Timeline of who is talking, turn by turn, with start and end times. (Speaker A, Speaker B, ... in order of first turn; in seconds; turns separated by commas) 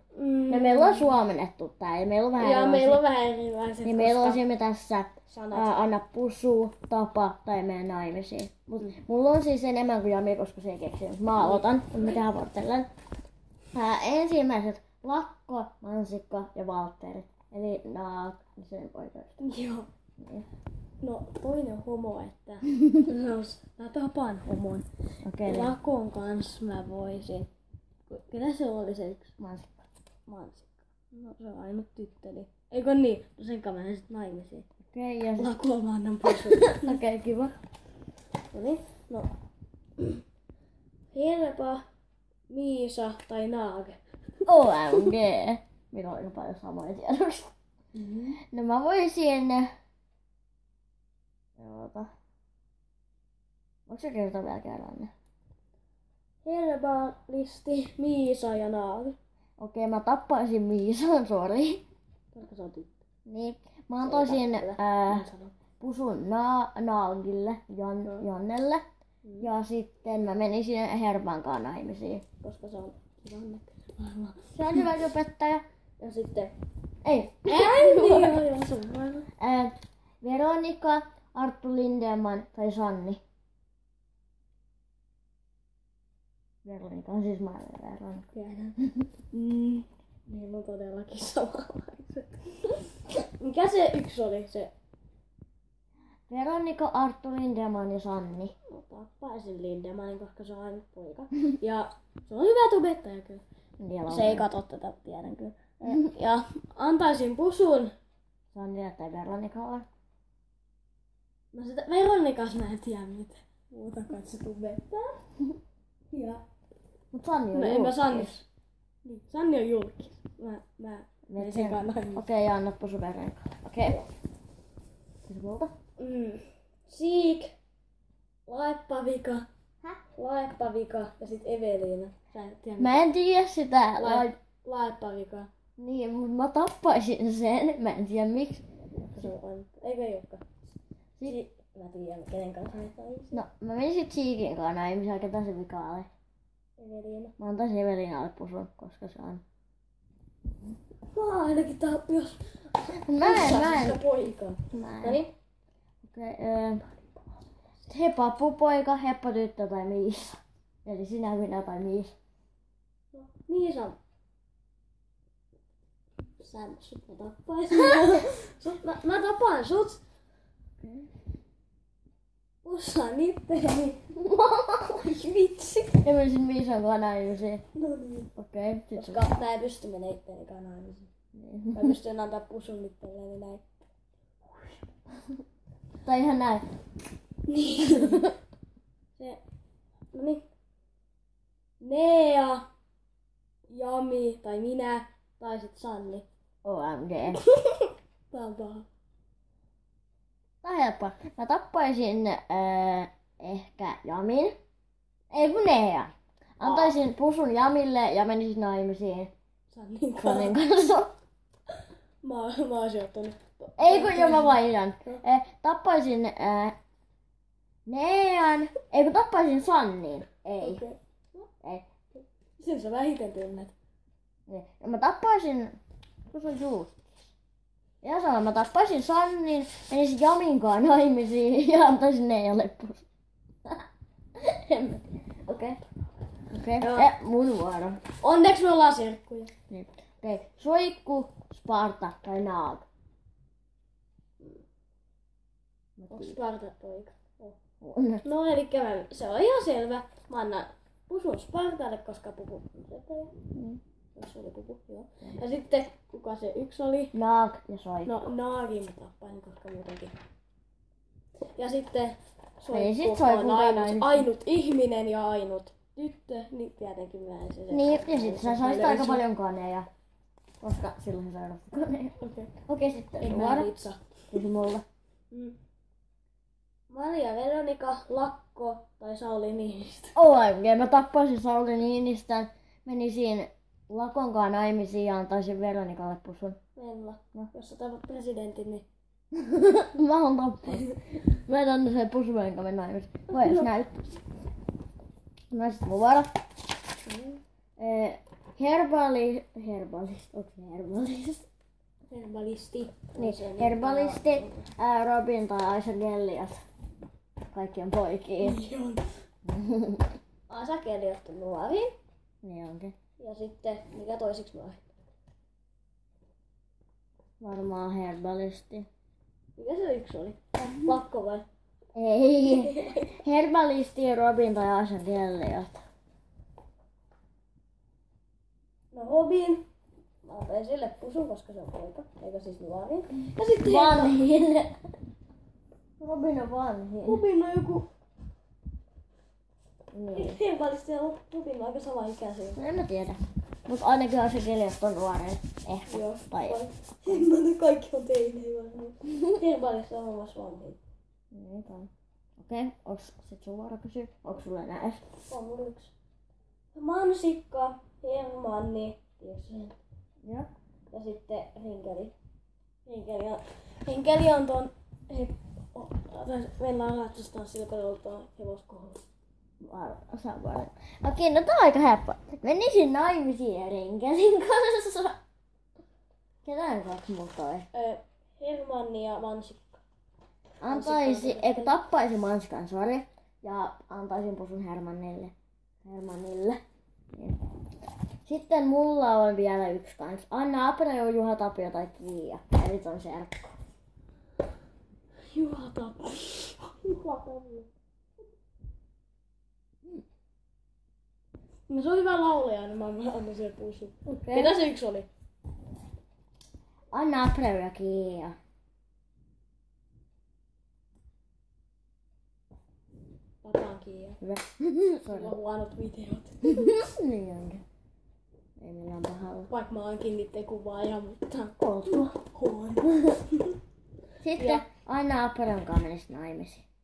Speaker A: 0.1-1.1, Speaker B: 0.5-3.0, Speaker A: 2.4-4.4, Speaker B: 3.9-12.9, Speaker A: 5.3-5.7, Speaker A: 11.4-11.7, Speaker B: 13.7-19.4, Speaker A: 19.4-19.9, Speaker B: 20.2-20.5, Speaker A: 21.0-24.9, Speaker B: 25.2-25.7, Speaker A: 25.4-27.5, Speaker A: 28.1-29.3, Speaker B: 29.4-29.8, Speaker A: 30.3-34.6, Speaker B: 34.9-35.6, Speaker A: 35.4-37.5, Speaker B: 36.5-37.0, Speaker A: 38.5-39.3, Speaker A: 41.1-41.9, Speaker A: 42.5-45.1, Speaker B: 44.5-47.5, Speaker A: 48.0-48.4, Speaker B: 48.5-49.7, Speaker B: 51.6-52.1, Speaker B: 53.9-55.1, Speaker A: 56.4-59.2, Speaker B: 59.6-61.8, Speaker A: 62.4-63.0, Speaker B: 63.3-65.3, Speaker A: 64.0-65.5, Speaker B: 65.8-68.8, Speaker B: 69.4-72.2, Speaker A: 72.4-74.9, Speaker B: 74.5-75.6, Speaker A: 76.0-76.5, Speaker B: 77.0-78.4, Speaker A: 77.5-79.3, Speaker B: 79.4-83.2, Speaker B: 86.7-88.3, Speaker A: 88.3-88.8, Speaker A: 89.3-94.7, Speaker B: 96.3-98.5, Speaker A: 98.7-103.4, Speaker B: 103.8-104.5, Speaker A: 104.1-107.9, Speaker B: 108.5-109.9, Speaker A: 111.5-115.4, Speaker A: 116.1-116.4, Speaker B: 117.1-118.4, Speaker A: 117.5-118.5, Speaker A: 119.0-122.3, Speaker B: 121.3-124.0, Speaker B: 125.2-125.7, Speaker A: 126.0-127.5, Speaker A: 128.5-129.5, Speaker A: 130.1-133.1, Speaker B: 132.8-134.4, Speaker A: 134.0-135.5, Speaker B: 135.8-138.6, Speaker A: 138.9-140.6, Speaker A: 141.2-143.4, Speaker B: 143.3-146.1, Speaker A: 146.8-147.3, Speaker B: 147.4-149.4, Speaker A: 151.1-155.3, Speaker B: 153.0-154.0, Speaker B: 154.7-155.2, Speaker B: 156.0-156.9, Speaker B: 157.9-162.1, Speaker A: 163.1-164.0, Speaker A: 166.4-170.0, Speaker B: 170.8-171.1, Speaker A: 172.6-176.0, Speaker B: 176.0-177.6, Speaker A: 177.8-178.3, Speaker B: 178.4-179.3, Speaker A: 179.0-181.1, Speaker B: 181.3-181.9, Speaker A: 181.7-183.6, Speaker B: 186.0-186.7, Speaker A: 187.5-188.2, Speaker B: 187.8-188.3, Speaker A: 190.1-190.4, Speaker A: 191.8-192.7, Speaker A: 193.7-196.3, Speaker B: 196.6-197.4, Speaker A: 197.3-198.9, Speaker B: 200.6-204.6, Speaker B: 205.3-209.3, Speaker A: 206.6-207.0, Speaker A: 209.7-210.6, Speaker B: 210.2-211.1, Speaker A: 212.2-215.2, Speaker B: 213.8-216.8, Speaker B: 217.9-220.8, Speaker A: 220.6-221.0, Speaker A: 222.6-223.7, Speaker B: 224.5-225.8, Speaker B: 226.3-227.1, Speaker B: 228.0-233.1, Speaker B: 234.4-235.8, Speaker B: 236.5-238.0, Speaker A: 236.8-237.1, Speaker A: 238.2-239.5, Speaker B: 239.7-242.8, Speaker B: 246.0-246.4, Speaker A: 246.1-247.6, Speaker B: 247.8-248.2, Speaker A: 248.2-253.3, Speaker B: 253.6-253.8, Speaker A: 254.2-257.1, Speaker B: 257.1-258.1, Speaker A: 258.1-260.1, Speaker A: 261.6-269.2, Speaker B: 262.7-264.3, Speaker B: 267.7-269.9, Speaker B: 270.6-272.2, Speaker A: 272.2-272.5, Speaker B: 272.7-273.7, Speaker A: 273.2-274.1, Speaker B: 274.3-274.8, Speaker A: 275.3-275.6, Speaker A: 276.9-280.2, Speaker B: 280.2-286.6, Speaker A: 286.8-288.9, Speaker B: 289.3-294.2, Speaker B: 295.5-296.3, Speaker A: 297.1-297.4, Speaker B: 297.8-301.5, Speaker A: 302.1-304.7, Speaker B: 303.2-306.6, Speaker B: 307.5-308.6, Speaker A: 308.4-309.2, Speaker B: 309.5-310.1, Speaker A: 310.5-311.9, Speaker B: 312.4-312.9, Speaker A: 313.2-314.8, Speaker B: 317.4-318.9, Speaker A: 319.6-321.5, Speaker B: 321.9-325.8, Speaker A: 322.5-323.2, Speaker A: 328.9-329.7, Speaker A: 330.2-334.2, Speaker B: 333.6-334.7, Speaker B: 336.0-337.2, Speaker A: 337.1-337.9, Speaker B: 339.9-340.4, Speaker A: 340.1-342.6, Speaker B: 342.6-346.6, Speaker A: 345.9-350.8, Speaker B: 351.3-355.0, Speaker A: 355.3-355.9, Speaker A: 356.7-359.8, Speaker B: 360.2-360.5, Speaker A: 360.9-362.1, Speaker A: 362.9-369.0, Speaker B: 369.6-375.2, Speaker B: 376.4-377.7, Speaker A: 377.7-379.8, Speaker B: 380.6-385.3, Speaker A: 380.6-381.8, Speaker B: 385.9-386.6, Speaker B: 388.2-393.5, Speaker A: 395.3-397.7, Speaker A: 401.7-405.1, Speaker B: 404.1-404.6, Speaker B: 406.9-408.4, Speaker A: 413.4-414.2, Speaker B: 414.2-415.4, Speaker A: 415.0-416.8, Speaker B: 416.4-417.6, Speaker B: 418.6-419.5, Speaker A: 419.5-423.5, Speaker B: 421.6-422.1, Speaker B: 424.2-426.7, Speaker A: 424.4-424.6